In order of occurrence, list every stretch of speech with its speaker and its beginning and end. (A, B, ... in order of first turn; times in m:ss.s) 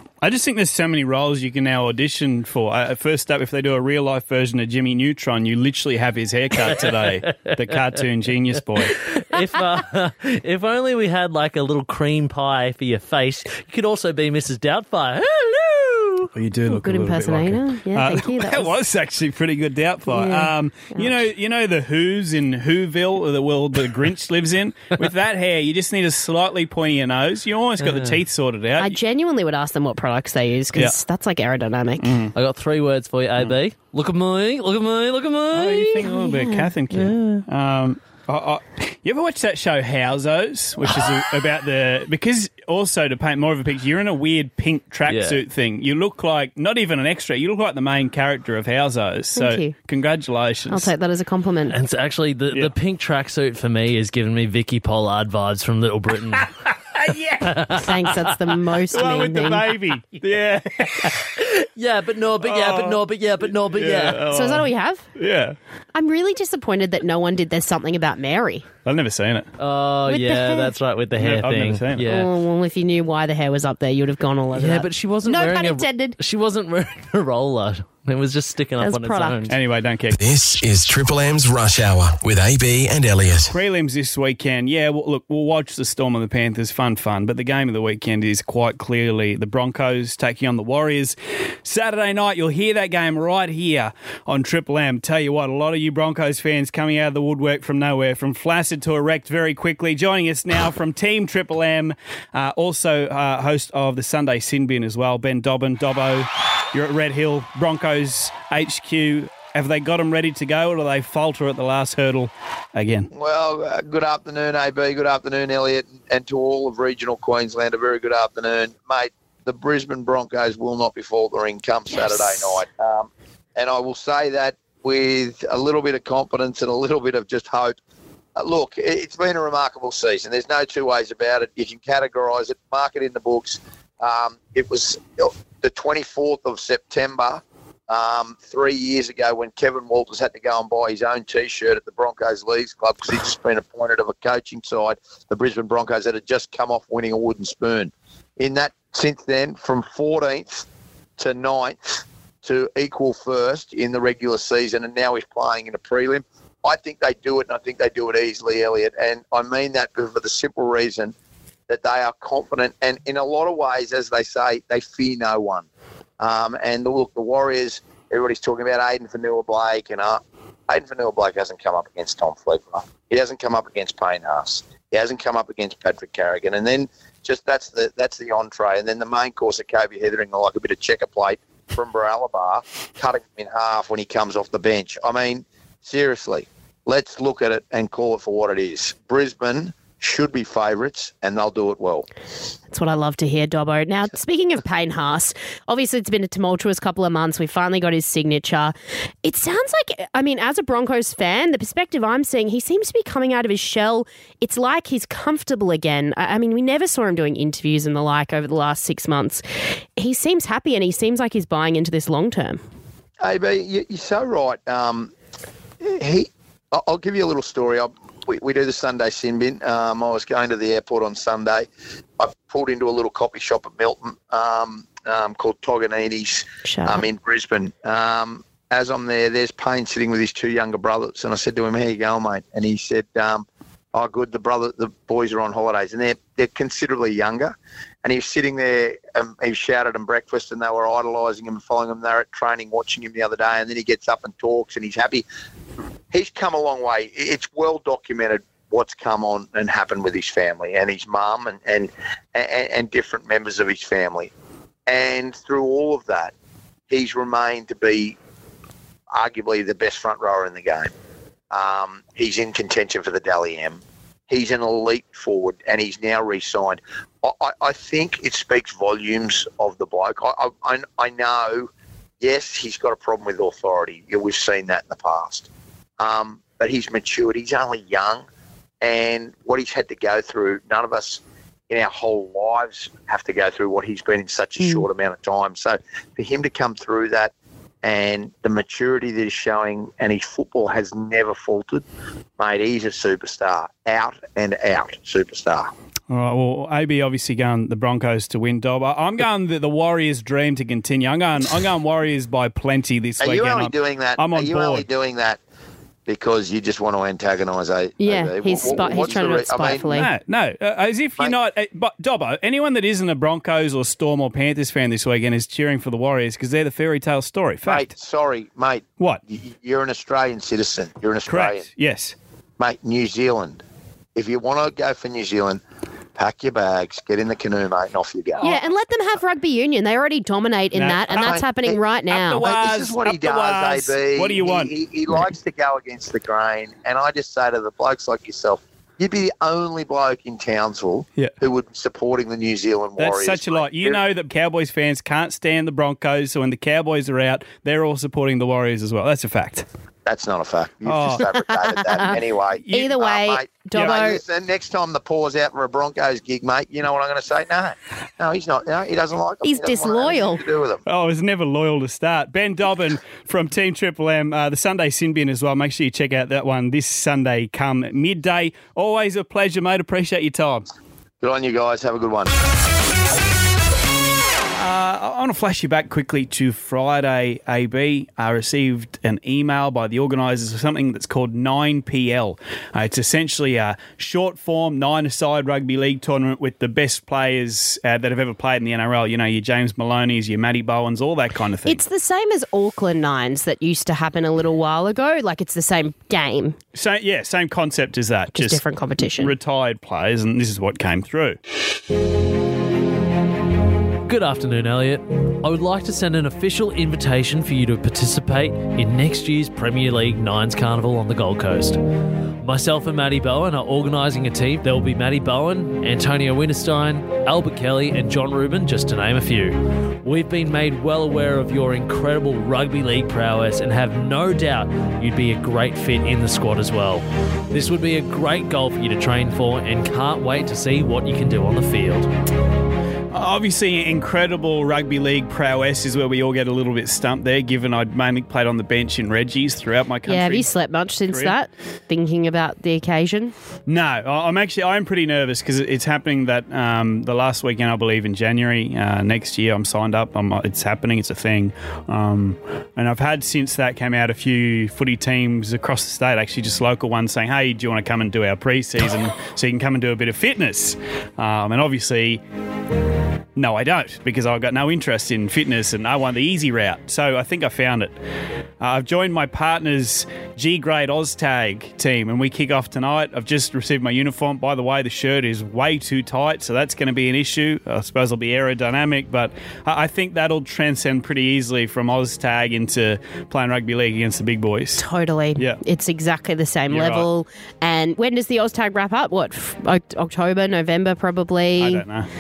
0:00.2-0:09.0 A
0:06.6-0:07.9 B
0:08.8-0:16.3 B
0:16.3-0:29.0 A
0:16.7-0:18.8 C
0:20.1-0:21.1 C
0:27.8-0:28.2 B
0:28.8-0:32.2 C
0:32.0-0:32.3 A
0:32.3-0:36.2 B
0:35.5-0:50.9 A
0:36.0-0:36.7 C
0:36.9-0:37.4 B
0:45.0-0:45.4 B
0:49.4-0:49.7 C
0:50.7-0:51.8 C
0:51.7-0:56.5 B
0:56.9-0:57.7 A
0:57.4-0:58.4 B
0:57.7-0:59.6 C
0:58.9-1:01.2 A
0:59.0-0:59.5 B
1:00.8-1:04.3 B
1:02.4-1:05.6 A
1:04.3-1:05.0 C
1:05.9-1:08.7 C
1:08.8-1:09.5 A
1:09.6-1:12.3 B
1:10.0-1:10.7 C
1:11.2-1:12.0 A
1:12.0-1:16.2 C
1:14.5-1:19.5 B
1:18.8-1:19.5 C
1:19.5-1:20.2 A
1:20.1-1:23.5 D
1:23.5-1:53.1 A
1:53.1-2:07.8 E
2:08.3-2:30.6 E
2:31.2-2:41.1 E
2:41.7-2:45.7 E
2:46.2-3:12.1 E
3:12.7-3:29.4 C
3:30.0-3:32.6 C
3:33.2-3:35.1 E
3:35.8-3:41.7 E
3:42.2-4:05.2 E
3:46.6-3:47.0 C
4:06.1-4:14.3 E
4:14.9-4:16.3 E
4:16.9-4:18.2 E
4:19.1-4:20.9 E
4:21.5-4:31.7 E
4:32.2-4:35.5 E
4:36.0-4:38.2 E
4:38.8-4:51.8 E
4:52.4-4:55.7 E
4:56.1-5:04.8 A
5:03.2-5:05.4 E
5:06.0-5:10.0 E
5:08.0-5:10.1 C
5:09.9-5:17.9 A
5:17.6-5:21.6 E
5:21.3-5:22.1 A
5:22.6-5:23.6 E
5:24.1-5:25.6 E
5:26.1-5:28.4 E
5:28.4-5:32.4 C
5:30.7-5:31.4 A
5:31.1-5:31.8 E
5:32.1-5:35.2 A
5:32.4-5:44.0 E
5:43.0-5:49.6 A
5:50.0-6:00.8 E
5:50.8-5:51.2 A
5:51.3-5:52.2 C
5:52.7-5:54.2 C
5:59.4-6:00.4 C
6:00.8-6:10.6 A
6:11.2-6:12.3 E
6:14.5-6:31.8 A
6:31.6-6:36.6 C
6:36.7-6:41.4 A
6:38.3-6:39.3 C
6:44.0-6:51.8 B
6:52.4-7:12.1 B
7:13.1-7:20.5 A
7:20.1-7:23.3 C
7:21.1-7:21.3 A
7:23.7-7:42.2 A
7:43.4-7:47.9 A
7:48.6-8:04.8 A
8:04.8-8:11.8 C
8:06.7-8:07.1 A
8:11.6-8:12.1 A